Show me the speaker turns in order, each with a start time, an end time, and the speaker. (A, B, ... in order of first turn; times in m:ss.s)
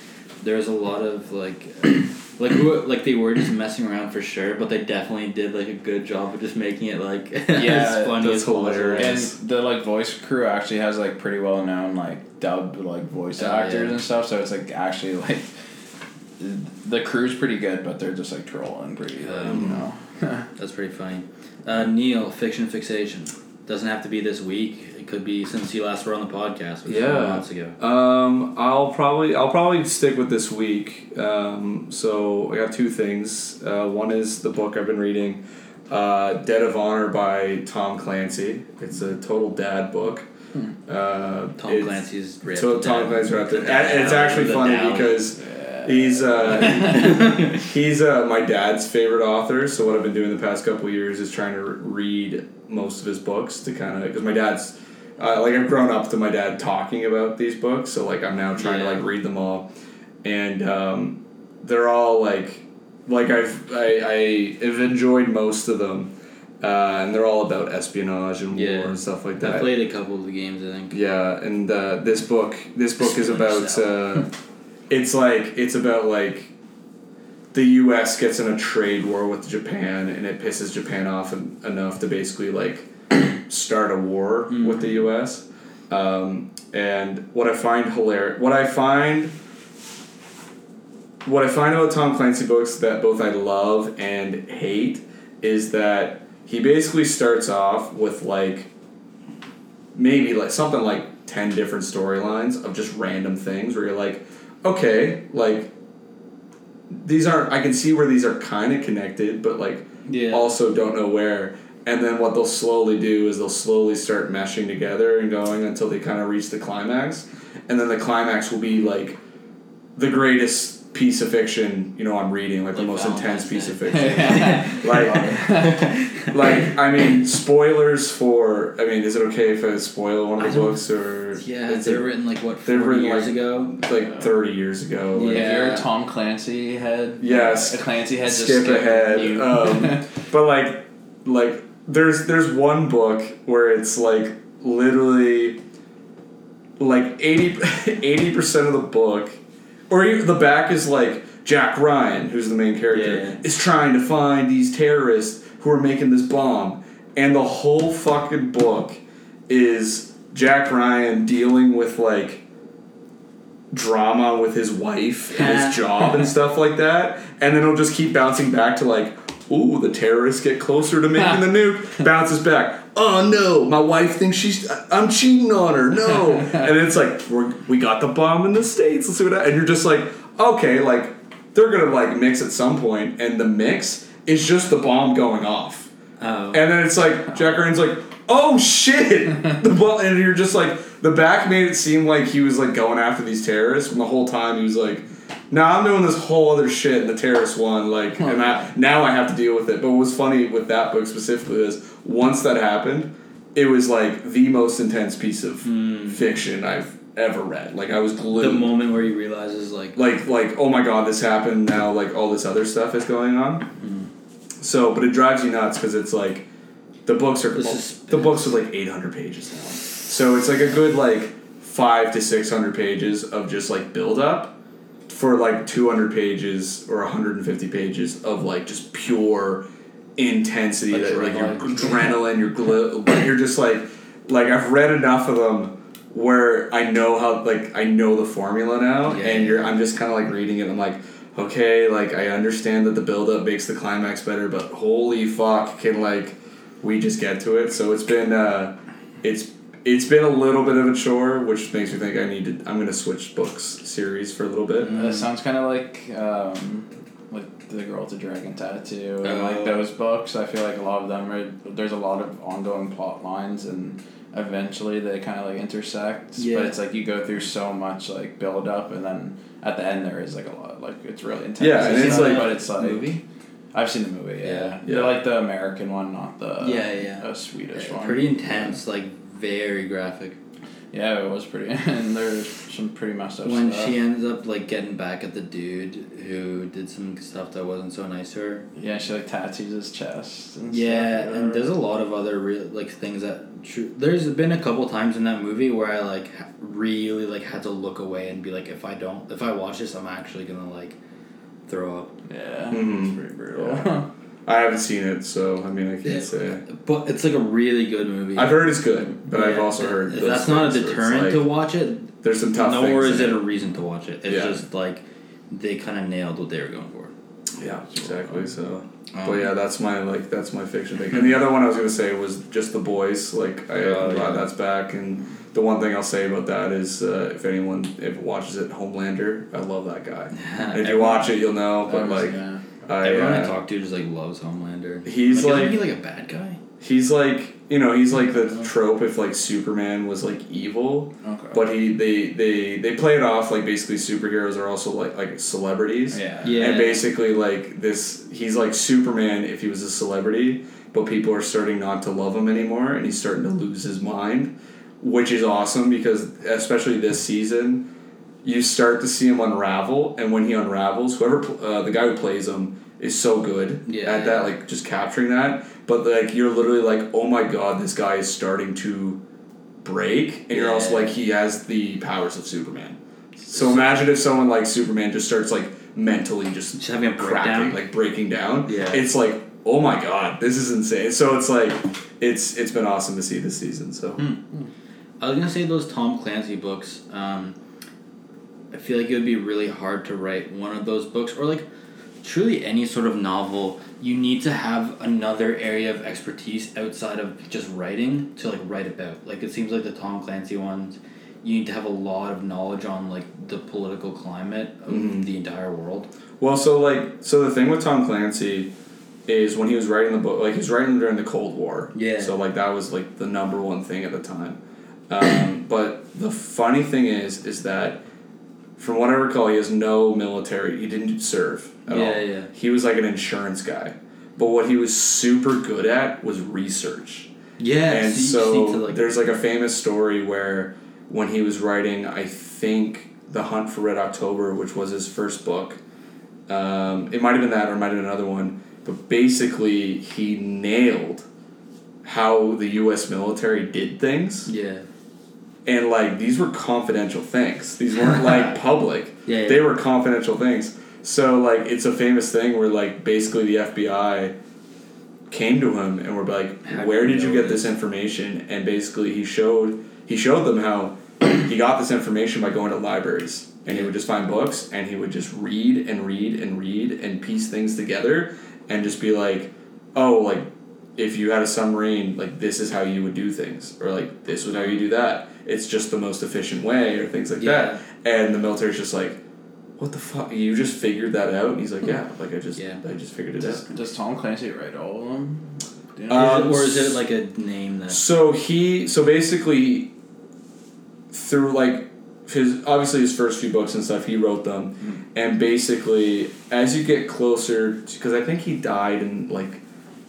0:00.4-0:09.2 A
0:07.5-0:08.2 B
0:08.2-0:09.4 C
0:09.0-0:15.5 B
0:13.4-0:14.0 A
0:16.4-0:20.5 B
0:19.2-0:19.7 A
0:19.4-0:19.8 C
0:20.6-0:27.8 A
0:26.8-0:40.3 C
0:40.9-0:59.7 C
0:41.6-0:45.2 A
0:45.4-0:47.4 B
0:46.9-0:47.5 A
0:58.6-0:59.0 A
1:00.2-1:09.7 C
1:08.5-1:11.0 A
1:10.9-1:14.3 C
1:13.0-1:14.2 A
1:14.9-1:16.5 C
1:17.5-1:29.3 C
1:24.5-1:24.9 A
1:31.2-1:38.7 C
1:39.9-1:45.7 C
1:46.9-1:59.2 C
1:50.0-1:50.5 A
2:00.0-2:12.0 C
2:02.7-2:06.2 A
2:03.9-2:06.4 B
2:10.4-2:10.8 A
2:11.3-2:13.7 A
2:12.6-2:15.5 C
2:15.1-2:15.8 A
2:15.3-2:20.1 B
2:17.2-2:25.6 C
2:26.8-2:42.4 C
2:32.9-2:33.4 A
2:43.7-3:05.9 C
2:45.3-2:46.2 A
3:06.2-3:06.6 A
3:06.5-3:28.7 C
3:25.6-3:26.2 A
3:28.3-3:30.0 A
3:29.9-3:33.7 C
3:33.8-3:34.1 A
3:34.6-3:36.5 C
3:37.0-3:49.6 C
3:37.5-3:38.6 A
3:50.2-4:14.9 C
3:50.9-3:52.2 A
3:59.0-3:59.8 A
4:14.8-4:15.3 A
4:14.8-4:33.2 B
4:19.2-4:19.8 A
4:26.4-4:26.7 A
4:31.6-4:32.6 C
4:31.8-4:33.2 A
4:33.7-4:38.8 B
4:34.4-4:34.7 A
4:34.8-4:35.2 C
4:36.6-4:40.4 A
4:40.9-4:44.0 B
4:43.4-4:48.6 A
4:48.7-4:51.7 B
4:50.7-5:01.0 A
5:01.7-5:02.1 A
5:02.3-5:04.1 B
5:02.7-5:03.9 C
5:04.4-5:06.6 C
5:06.0-5:08.7 A
5:08.3-5:11.5 C
5:09.3-5:17.1 A
5:12.2-5:13.4 C
5:14.3-5:14.6 C
5:17.6-5:33.6 C
5:18.0-5:18.4 B
5:19.1-5:19.5 A
5:23.8-5:24.5 A
5:30.3-5:31.4 A
5:31.8-5:32.6 B
5:33.0-5:36.6 A
5:35.0-5:35.8 C
5:36.8-5:57.9 C
5:41.2-5:41.6 B
5:46.1-5:46.7 B
5:46.4-5:47.0 A
5:58.4-6:09.2 C
6:03.8-6:04.5 A
6:09.8-6:24.2 C
6:10.5-6:11.2 A
6:13.6-6:13.9 A
6:16.7-6:17.8 A
6:18.6-6:19.0 A
6:25.2-6:27.6 A
6:28.7-6:31.6 A
6:32.2-6:46.1 A
6:44.9-6:45.3 C
6:46.4-6:48.7 C
6:49.3-6:58.0 C
6:51.9-6:52.4 A
6:58.8-7:07.3 C
7:01.9-7:02.5 A
7:07.6-7:09.0 A
7:07.9-7:15.8 C
7:16.5-7:21.2 C
7:22.0-7:24.5 C
7:24.4-7:24.8 A
7:25.6-7:34.3 C
7:29.2-7:29.7 A
7:35.3-7:59.2 C
7:36.6-7:37.7 A
7:57.4-7:57.8 A
7:59.8-8:03.6 C
8:02.6-8:02.8 A
8:03.5-8:06.4 B
8:06.1-8:07.0 C
8:06.1-8:08.0 A
8:07.9-8:09.9 C
8:11.1-8:19.6 C